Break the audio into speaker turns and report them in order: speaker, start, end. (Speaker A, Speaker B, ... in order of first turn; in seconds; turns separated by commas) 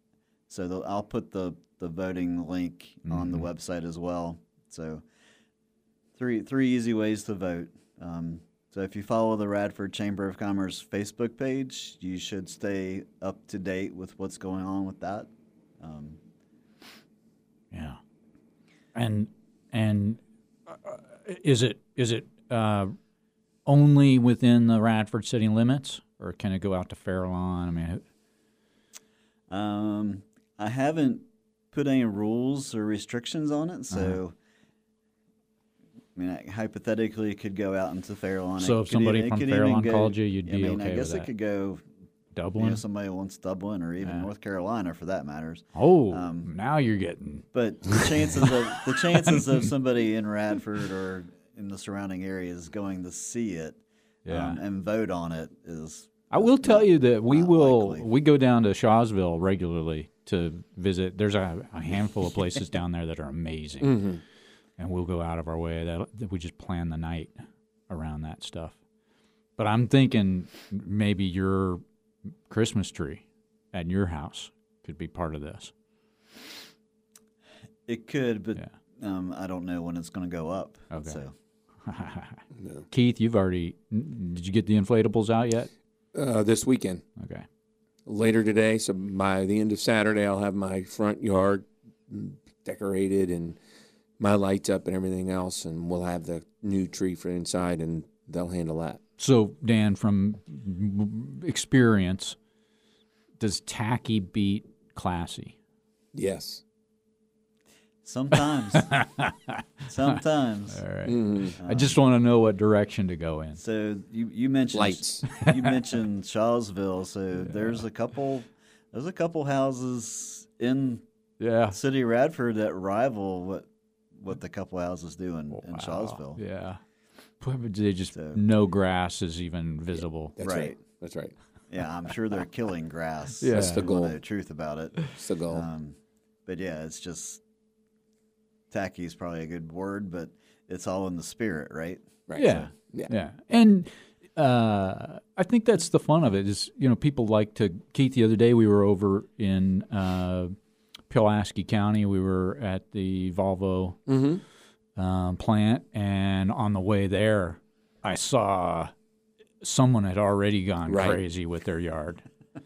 Speaker A: 0.5-5.0, Speaker B: 3.1-3.5, Speaker A: 6.2-15.3, Speaker A: 15.8-16.2, Speaker B: 17.7-18.0, Speaker B: 18.9-22.9, Speaker B: 23.7-28.0, Speaker A: 29.5-34.4, Speaker B: 33.9-34.2, Speaker A: 36.2-41.8, Speaker B: 38.6-41.3, Speaker B: 42.4-42.8, Speaker A: 42.6-46.5, Speaker B: 44.0-44.3, Speaker B: 45.8-47.4, Speaker A: 47.5-58.1, Speaker B: 54.3-54.6, Speaker B: 56.3-64.0, Speaker C: 63.8-64.2, Speaker B: 64.8-67.4, Speaker B: 67.9-68.8, Speaker B: 69.6-71.8, Speaker B: 72.5-75.7, Speaker A: 77.9-81.3, Speaker B: 80.9-81.2, Speaker B: 81.8-85.7, Speaker C: 82.6-82.9, Speaker C: 86.1-87.0, Speaker B: 87.2-87.5, Speaker C: 88.1-93.6, Speaker C: 94.2-99.0, Speaker B: 99.2-102.4, Speaker B: 103.4-105.5, Speaker C: 106.1-106.6, Speaker A: 108.0-108.9, Speaker B: 108.8-109.6, Speaker A: 109.9-110.8, Speaker B: 110.7-113.6, Speaker C: 111.0-111.6, Speaker A: 111.6-112.0, Speaker A: 113.6-121.0, Speaker C: 114.7-115.3, Speaker B: 117.3-117.8, Speaker B: 121.4-121.8, Speaker A: 121.7-123.7, Speaker A: 124.2-126.4, Speaker B: 125.5-126.8, Speaker B: 127.4-130.3, Speaker A: 128.1-128.4, Speaker C: 130.4-131.3, Speaker A: 130.4-130.8, Speaker A: 131.7-137.4, Speaker B: 133.4-133.9, Speaker C: 133.5-134.2, Speaker C: 135.2-135.7, Speaker A: 138.7-142.7, Speaker C: 142.3-143.1, Speaker B: 142.3-150.5, Speaker B: 151.1-154.0, Speaker C: 154.1-154.4, Speaker B: 155.0-158.9, Speaker B: 159.6-162.2, Speaker C: 160.9-161.2